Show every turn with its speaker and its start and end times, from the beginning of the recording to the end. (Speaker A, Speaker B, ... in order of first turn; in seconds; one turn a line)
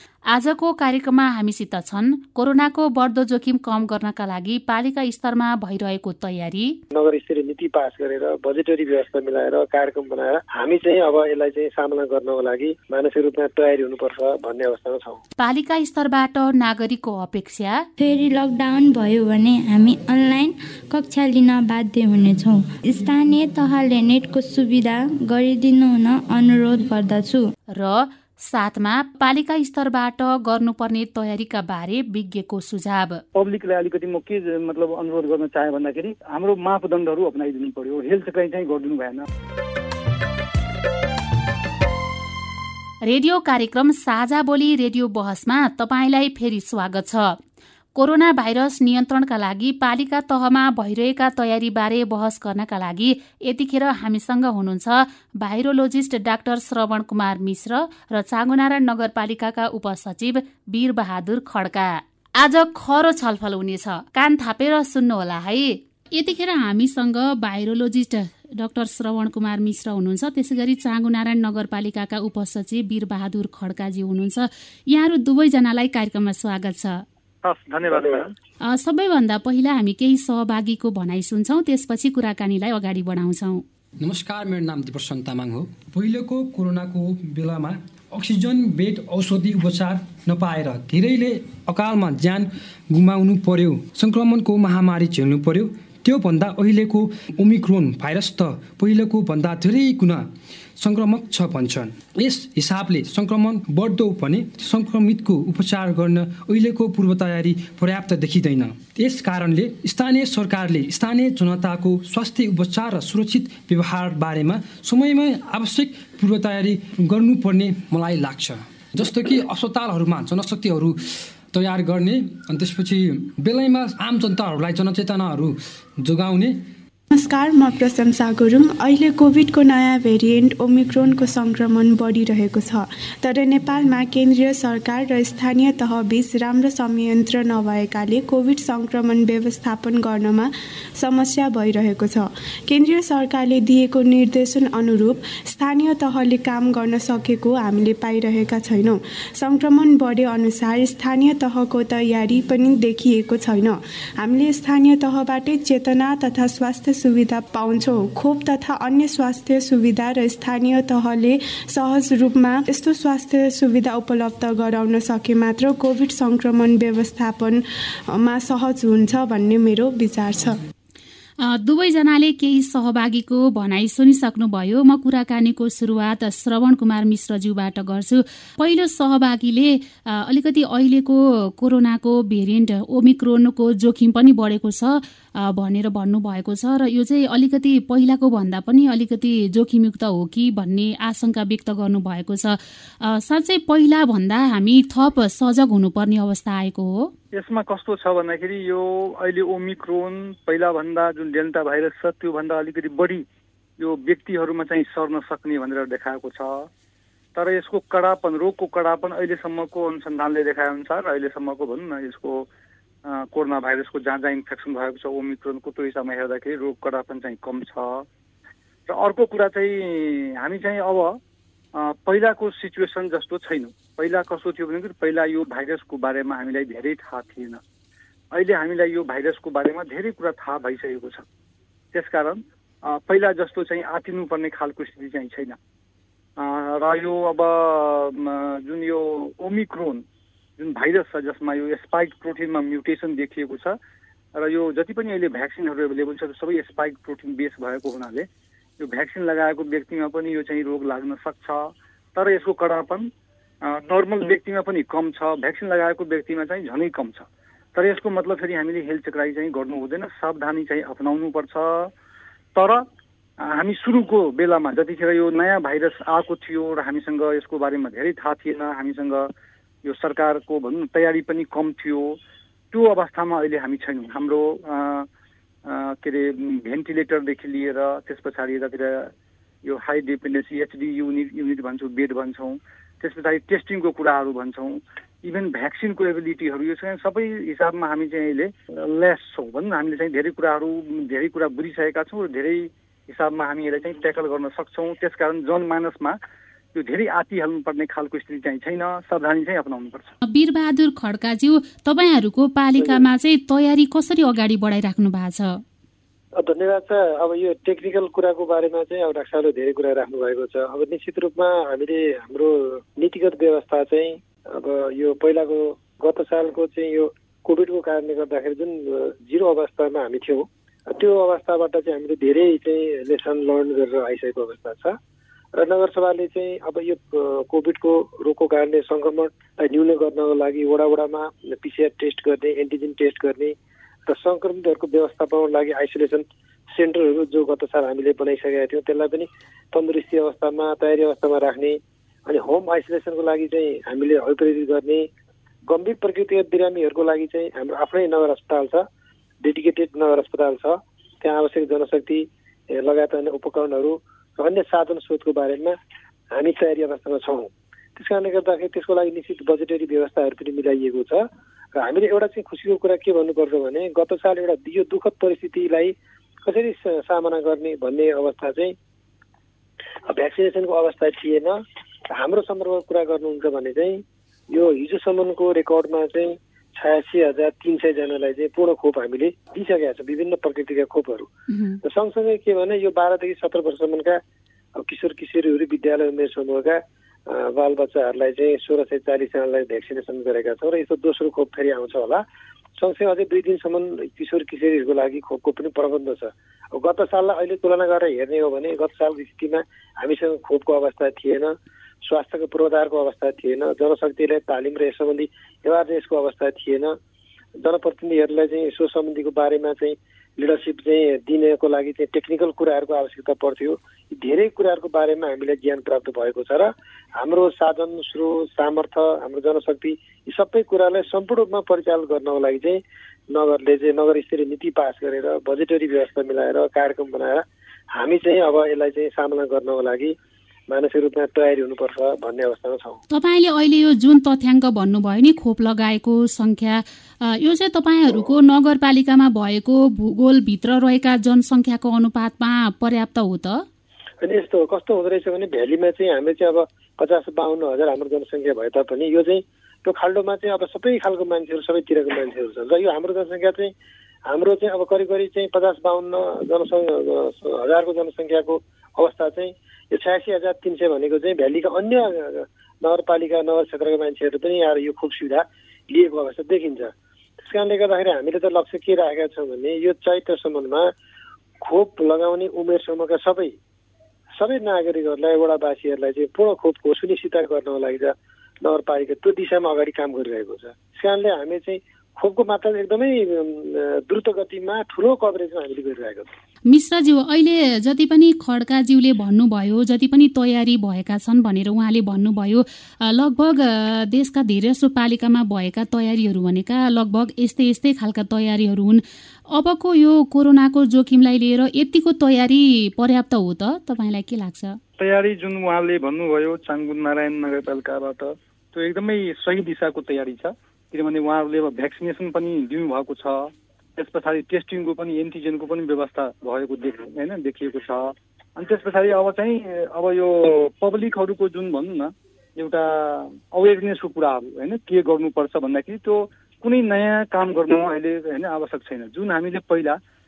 Speaker A: 0.3-6.8
Speaker B: 6.9-15.2
Speaker A: 15.4-17.9
Speaker C: 18.0-27.5
Speaker A: 27.8-33.2
Speaker D: 33.3-39.3
Speaker A: 43.0-47.4
Speaker A: 48.0-77.0
Speaker D: 77.4-78.3
Speaker A: 78.7-83.6
Speaker E: 84.0-121.0
Speaker E: 121.5-126.6
Speaker F: 127.1-170.6
Speaker A: 171.4-197.1
Speaker D: 197.3-203.2
Speaker D: 203.8-206.7
Speaker D: 207.3-212.5
Speaker D: 213.1-218.1
Speaker D: 218.9-221.2
Speaker D: 221.7-227.6
Speaker D: 228.3-231.3
Speaker D: 231.9-235.6
Speaker D: 236.4-240.0
Speaker D: 240.6-243.8
Speaker D: 244.4-248.3
Speaker D: 248.8-253.1
Speaker D: 253.6-261.9
Speaker D: 262.6-262.9
Speaker D: 263.4-269.3
Speaker D: 269.8-272.2
Speaker D: 272.7-275.1
Speaker D: 275.6-279.1
Speaker D: 279.6-296.2
Speaker D: 296.7-300.1
Speaker A: 300.2-305.6
Speaker B: 306.4-325.0
Speaker B: 325.6-333.6
Speaker B: 334.1-345.1
Speaker B: 345.7-348.9
Speaker B: 349.4-355.8
Speaker B: 356.3-368.8
Speaker B: 370.1-371.6
Speaker B: 372.1-381.3
Speaker A: 381.5-381.8
Speaker B: 381.8-384.2
Speaker B: 384.8-392.2
Speaker B: 392.8-406.9
Speaker B: 407.6-422.8
Speaker B: 423.3-430.1
Speaker B: 430.7-433.0
Speaker A: 433.1-443.6
Speaker B: 444.2-453.7
Speaker B: 454.3-470.9
Speaker B: 471.6-473.6
Speaker B: 474.4-486.3
Speaker A: 486.7-499.0
Speaker A: 499.5-504.8
Speaker D: 505.0-530.0